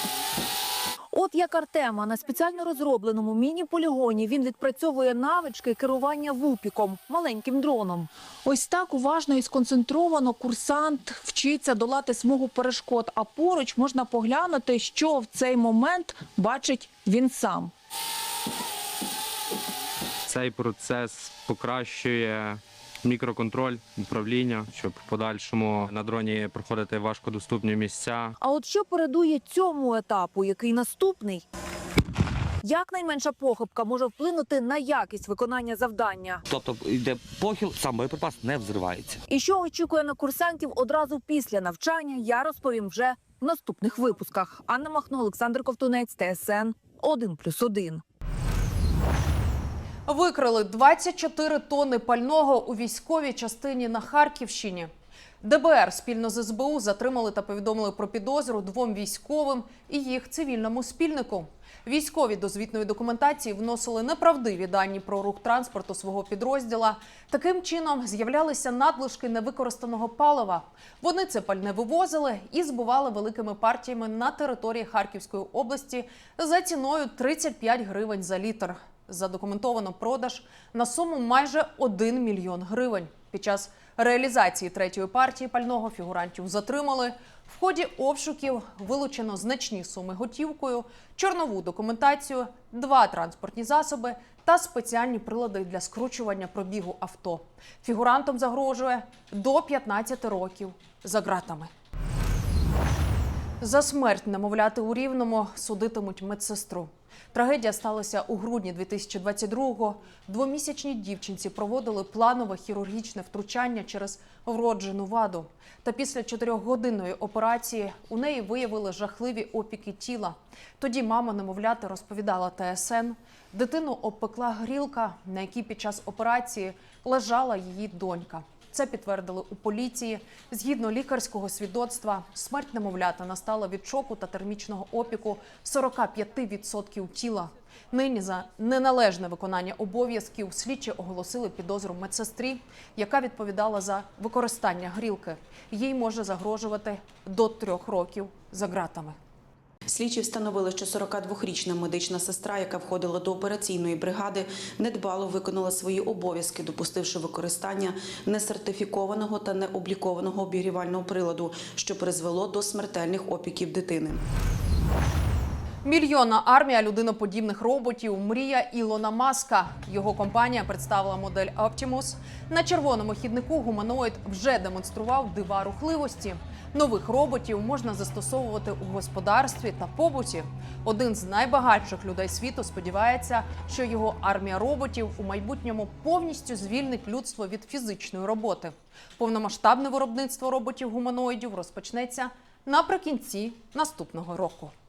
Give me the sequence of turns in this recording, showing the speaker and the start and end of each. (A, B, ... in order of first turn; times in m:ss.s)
0:01.1-0:17.7 A
0:20.3-0:28.3 B
0:28.4-0:31.4 A
0:32.6-0:36.4 A
0:36.5-0:39.2 C
0:39.3-0:48.0 A
0:50.1-0:54.9 D
0:55.4-1:41.7 D
1:43.6-2:29.2 D
2:29.9-2:44.2 E
2:45.8-3:14.7 D